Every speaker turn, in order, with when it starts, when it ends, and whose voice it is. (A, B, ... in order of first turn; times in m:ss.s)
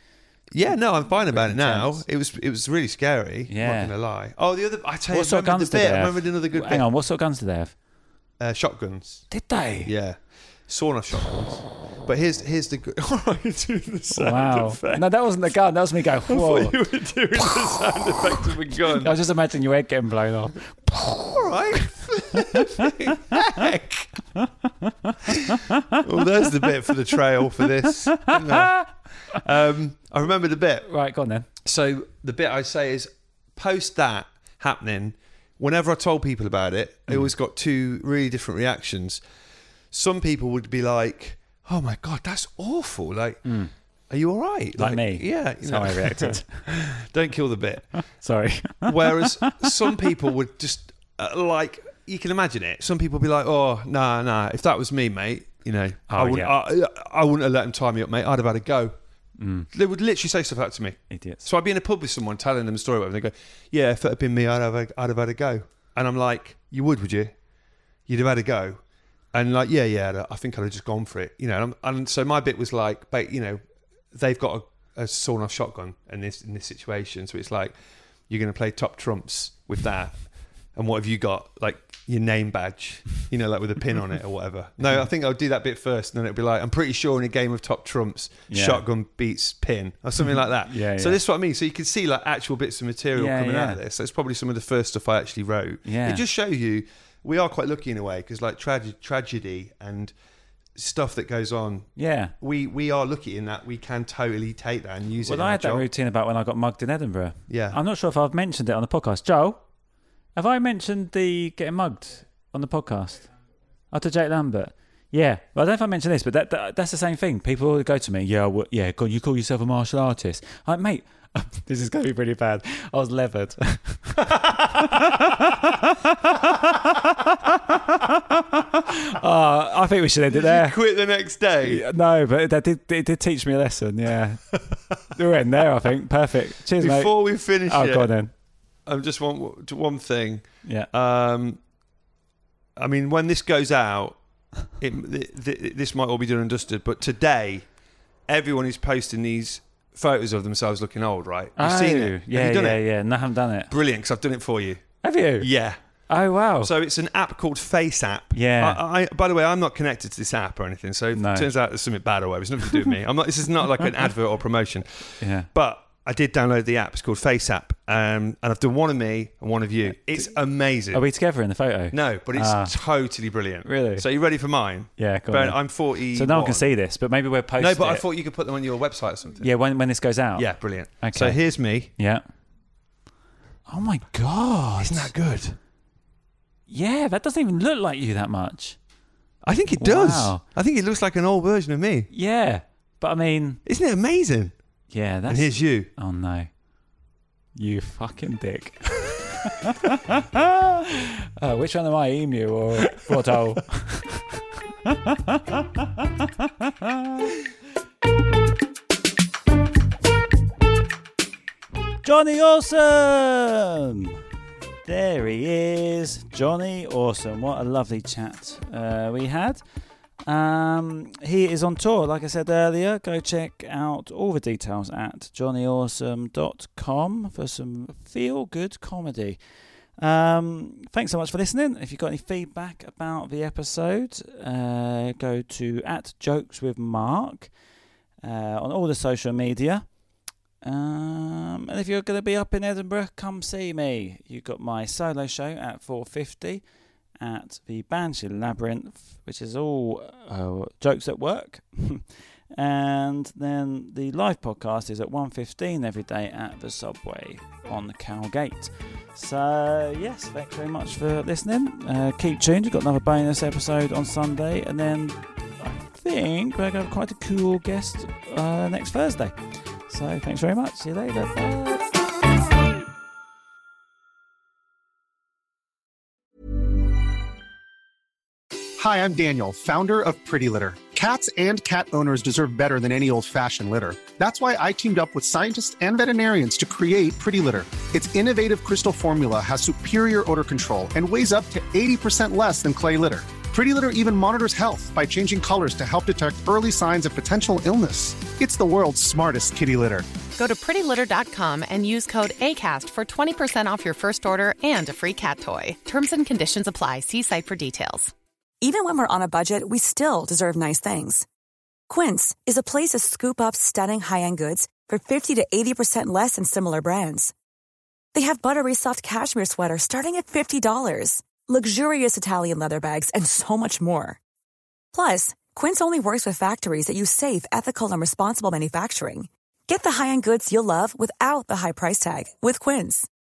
0:00.5-0:06.8 A
0:01.3-0:02.0 B
0:03.5-0:03.9 B
0:05.1-0:07.7 B
0:08.4-0:09.3 A
0:09.3-0:09.9 B
0:09.8-0:15.0 A
0:14.1-0:16.8 B
0:16.3-0:19.2 A
0:18.9-0:23.6 B
0:21.2-0:24.1 A
0:25.1-0:25.8 B
0:25.3-0:30.9 A
0:27.8-0:29.4 B
0:30.8-0:31.5 B
0:31.6-0:39.2 A
0:39.9-0:43.5 A
0:43.4-0:43.7 B
0:44.1-0:48.0 A
0:44.8-0:46.6 B
0:48.2-0:50.1 B
0:48.8-0:59.0 A
0:56.1-0:56.5 B
0:59.4-0:59.7 B
0:59.7-1:07.3 A
1:01.1-1:01.4 B
1:08.1-1:08.8 A
1:09.3-1:13.6 A
1:14.1-1:17.7 A
1:18.3-1:20.2 A
1:20.7-1:40.1 A
1:28.5-1:28.8 B
1:30.6-1:31.2 B
1:33.2-1:33.8 B
1:35.8-1:36.2 B
1:40.7-1:45.8 A
1:42.0-1:42.3 B
1:45.2-1:49.6 B
1:47.5-1:47.8 A
1:50.4-1:53.3 B
1:53.9-2:10.8 B
2:10.3-2:11.8 A
2:11.6-2:18.3 B
2:16.8-2:18.1 A
2:18.8-2:21.6 A
2:22.8-2:24.2 A
2:24.8-2:27.7 A
2:28.3-2:32.8 A
2:31.6-2:33.7 B
2:33.7-2:36.0 A
2:35.0-2:35.5 B
2:36.0-2:36.7 B
2:36.6-2:51.0 A
2:38.3-2:38.8 B
2:41.1-2:41.5 B
2:45.2-2:45.5 B
2:50.9-2:52.7 B
2:51.9-2:56.7 A
2:53.6-2:54.0 B
2:55.0-2:58.0 B
2:57.6-2:59.5 A
2:59.4-3:02.2 B
3:00.4-3:01.9 A
3:03.7-3:05.1 B
3:04.8-3:05.6 A
3:06.7-3:08.8 B
3:09.4-3:12.1 A
3:09.8-3:10.4 B
3:12.1-3:13.6 B
3:13.6-3:14.5 A
3:14.9-3:16.5 B
3:15.2-3:15.9 A
3:17.6-3:25.6 B
3:26.2-3:27.3 B
3:32.0-3:34.2 B
3:34.8-3:39.6 B
3:40.2-3:49.4 B
3:50.0-3:57.5 B
3:58.2-4:00.0 B
4:00.6-4:06.6 B
4:07.2-4:29.4 B
4:29.9-4:31.9 B
4:38.8-5:00.0 C
5:00.3-5:08.1 D
5:08.6-5:11.2 E
5:11.9-5:17.3 E
5:18.1-5:24.2 E
5:24.9-5:33.1 E